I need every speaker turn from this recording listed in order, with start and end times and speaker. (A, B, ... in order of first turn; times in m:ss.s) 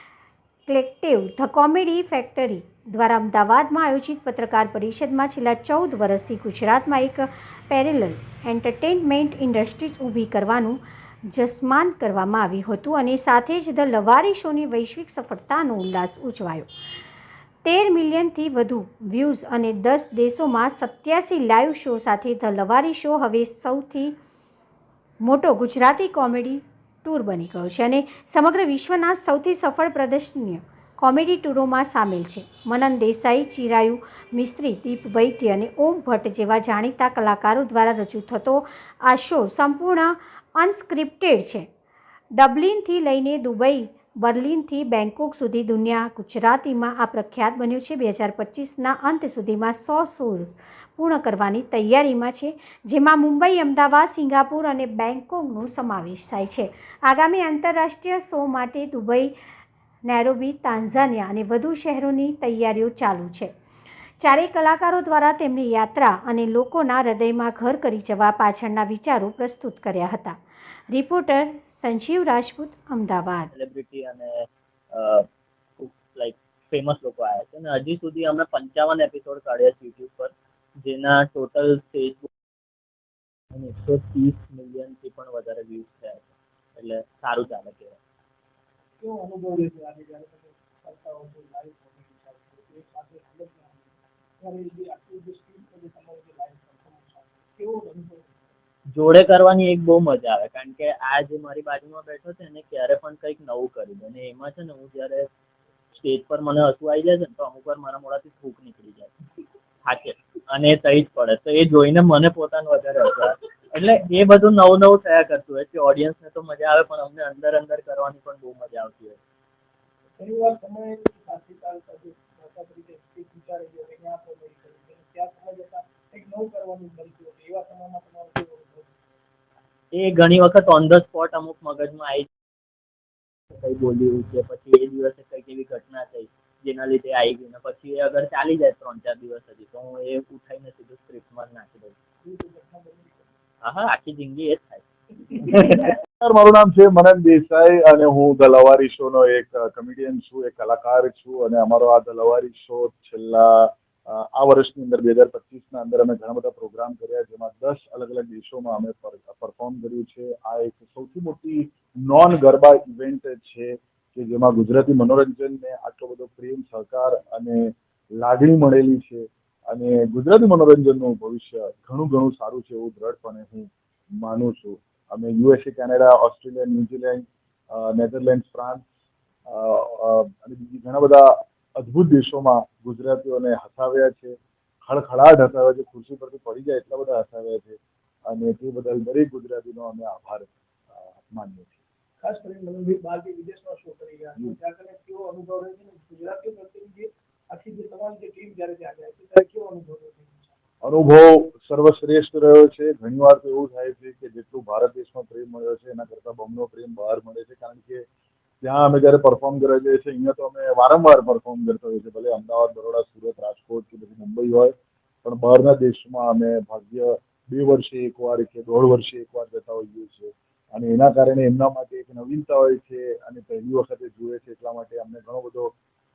0:00.7-0:16.7 A
0:17.6-0:24.2 A
0:25.2-0:41.7 A
0:42.4-0:59.3 A
1:00.0-1:03.5 A
1:04.2-1:10.4 A
1:10.9-1:13.5 A
1:13.5-1:14.3 B
1:14.9-1:15.2 B
1:15.8-1:22.3 B
1:23.5-1:28.0 B
1:29.0-1:38.6 C
1:39.0-1:45.3 B
1:46.0-1:49.1 B
1:49.9-1:59.2 B
2:00.2-2:08.9 C
2:09.9-2:12.3 B
2:13.5-2:21.9 B
2:22.2-2:23.3 C
2:23.6-2:24.8 B
2:25.4-2:25.7 B
2:26.2-2:58.9 D
2:59.5-3:04.4 D
3:04.9-3:11.8 D
3:12.2-3:20.5 C
3:20.8-3:28.1 D
3:28.6-3:34.7 D
3:35.2-3:45.7 D